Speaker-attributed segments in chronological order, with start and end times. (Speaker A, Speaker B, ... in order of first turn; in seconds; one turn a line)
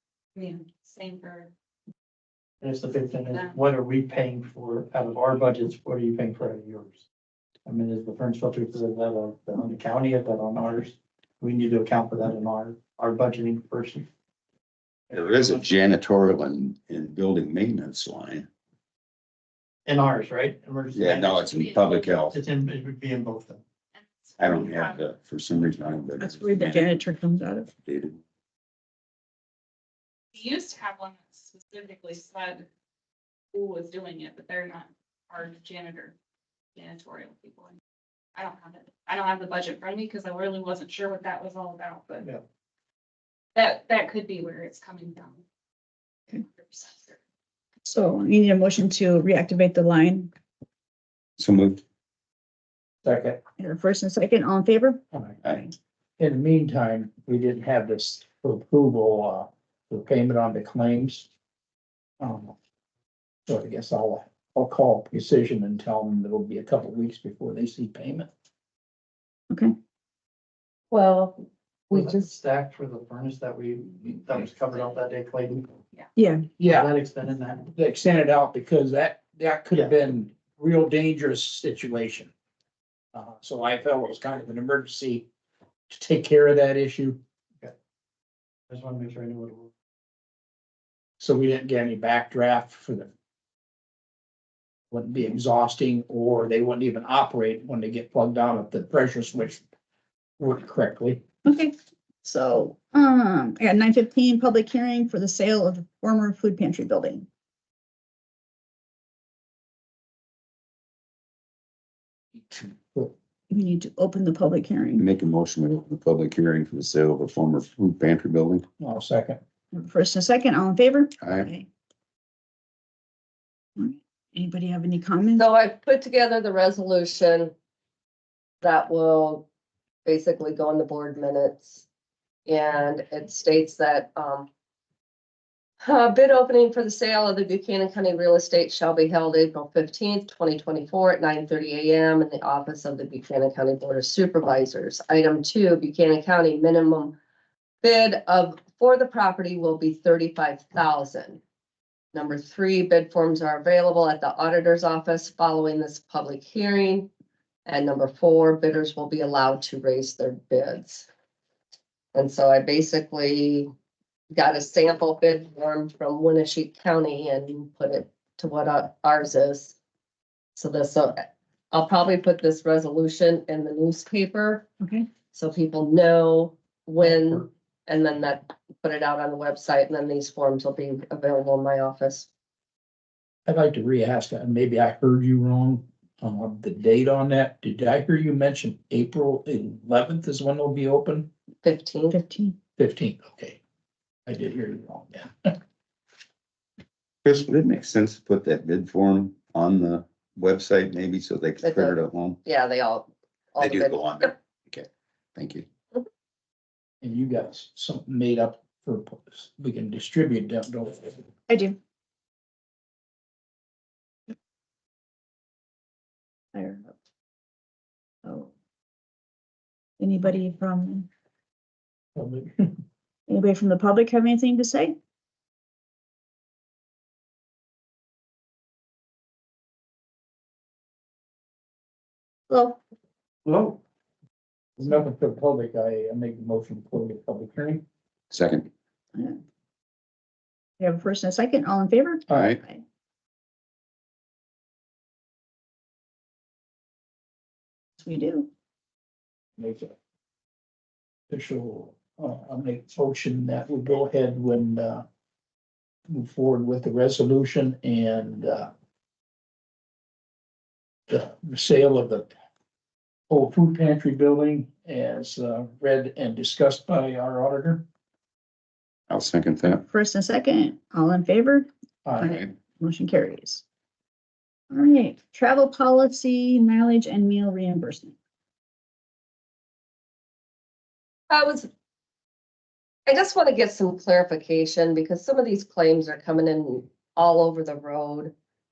Speaker A: 0.3-1.5
Speaker B: 2.6-7.0
Speaker A: 3.2-3.6
Speaker B: 7.7-14.1
Speaker B: 15.1-15.7
Speaker C: 15.1-18.5
Speaker B: 19.9-23.6
Speaker C: 20.9-22.4
Speaker A: 21.5-22.1
Speaker A: 23.9-25.0
Speaker C: 24.4-27.0
Speaker D: 26.2-27.7
Speaker C: 27.8-28.2
Speaker A: 30.3-32.6
Speaker A: 33.5-36.1
Speaker A: 36.7-37.8
Speaker A: 38.3-42.3
Speaker A: 43.5-45.4
Speaker A: 46.4-47.1
Speaker D: 47.8-50.3
Speaker C: 51.4-51.8
Speaker E: 53.0-53.4
Speaker D: 53.6-55.0
Speaker C: 55.4-55.7
Speaker E: 56.2-61.3
Speaker E: 62.2-62.5
Speaker E: 63.5-68.3
Speaker F: 70.9-72.3
Speaker B: 71.9-75.7
Speaker D: 76.2-76.6
Speaker E: 76.6-76.9
Speaker B: 76.6-77.7
Speaker E: 77.7-82.3
Speaker E: 83.1-85.3
Speaker E: 85.9-87.2
Speaker B: 88.7-89.7
Speaker E: 91.2-93.1
Speaker E: 94.9-99.6
Speaker E: 100.4-101.2
Speaker D: 101.4-101.7
Speaker D: 102.2-107.3
Speaker E: 112.4-113.1
Speaker D: 113.5-115.0
Speaker C: 115.0-118.6
Speaker E: 118.8-119.4
Speaker D: 119.7-121.7
Speaker C: 121.2-121.5
Speaker D: 123.8-125.5
Speaker F: 125.3-127.5
Speaker F: 128.6-129.4
Speaker F: 130.0-131.8
Speaker F: 132.4-134.5
Speaker F: 135.8-147.1
Speaker F: 147.8-151.4
Speaker F: 152.1-157.1
Speaker F: 157.6-161.1
Speaker F: 162.1-163.7
Speaker F: 164.3-169.7
Speaker F: 170.6-174.7
Speaker D: 174.8-175.1
Speaker F: 175.3-182.3
Speaker E: 183.4-191.3
Speaker F: 191.6-192.2
Speaker D: 192.1-192.6
Speaker E: 192.8-193.6
Speaker E: 194.3-195.5
Speaker C: 197.2-202.4
Speaker F: 201.6-204.3
Speaker C: 203.6-205.7
Speaker E: 207.0-211.2
Speaker D: 211.5-211.8
Speaker D: 216.5-216.9
Speaker D: 218.2-218.5
Speaker D: 220.0-221.1
Speaker E: 222.1-222.8
Speaker D: 223.3-224.9
Speaker D: 232.5-232.8
Speaker B: 233.4-233.8
Speaker E: 234.8-237.8
Speaker C: 238.3-238.7
Speaker D: 240.8-242.8
Speaker C: 242.3-242.6
Speaker D: 248.0-248.5
Speaker E: 249.6-249.9
Speaker E: 251.3-255.0
Speaker E: 256.1-258.7
Speaker E: 261.1-262.3
Speaker E: 263.3-267.8
Speaker C: 269.1-269.8
Speaker D: 269.7-271.7
Speaker E: 272.0-272.3
Speaker D: 272.2-273.6
Speaker D: 274.7-278.1
Speaker F: 281.3-281.7
Speaker F: 283.1-288.3